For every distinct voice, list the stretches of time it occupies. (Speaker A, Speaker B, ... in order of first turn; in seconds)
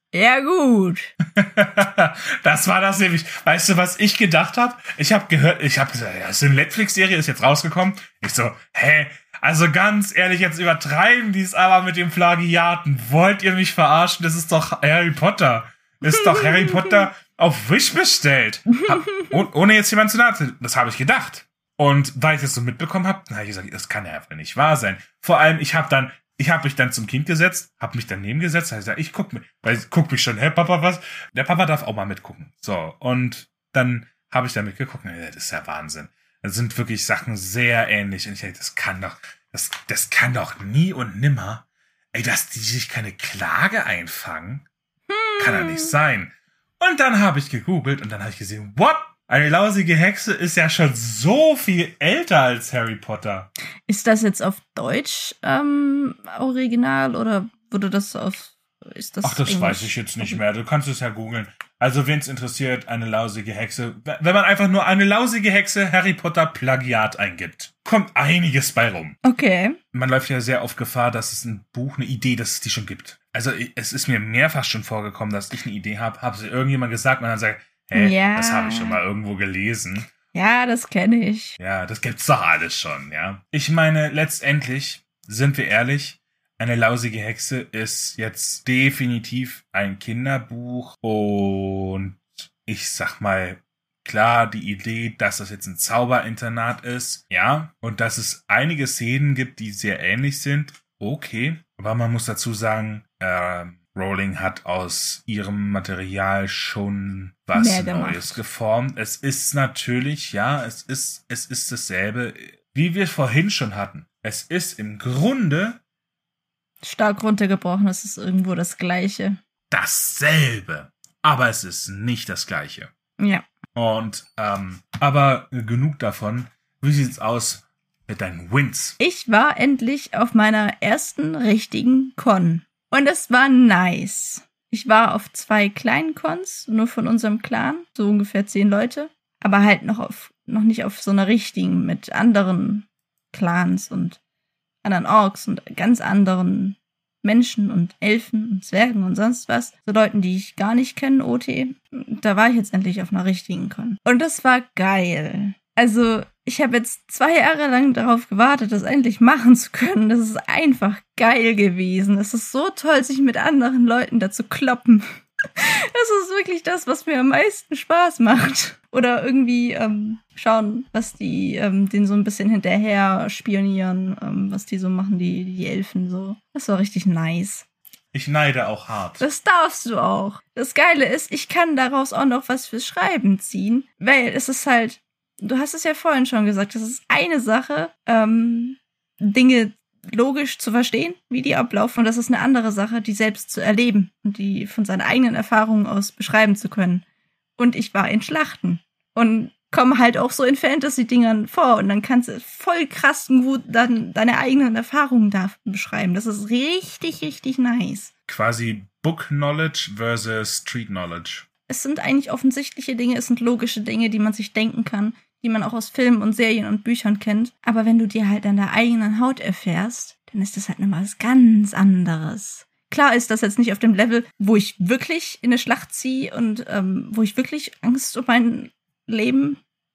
Speaker A: 0.1-1.1, 16.2-16.9, 45.1-46.0, 53.9-60.4, 69.2-69.8, 77.9-79.0, 80.3-81.6, 107.5-108.4, 116.8-119.4, 123.2-123.5, 129.0-144.2, 144.8-177.7, 179.2-197.0, 197.6-208.1, 211.7-229.6
Speaker B: 1.4-44.7, 45.4-53.5, 59.2-69.2, 69.9-80.1, 81.6-115.8, 119.7-122.9, 123.8-129.0, 178.1-179.3, 208.3-211.4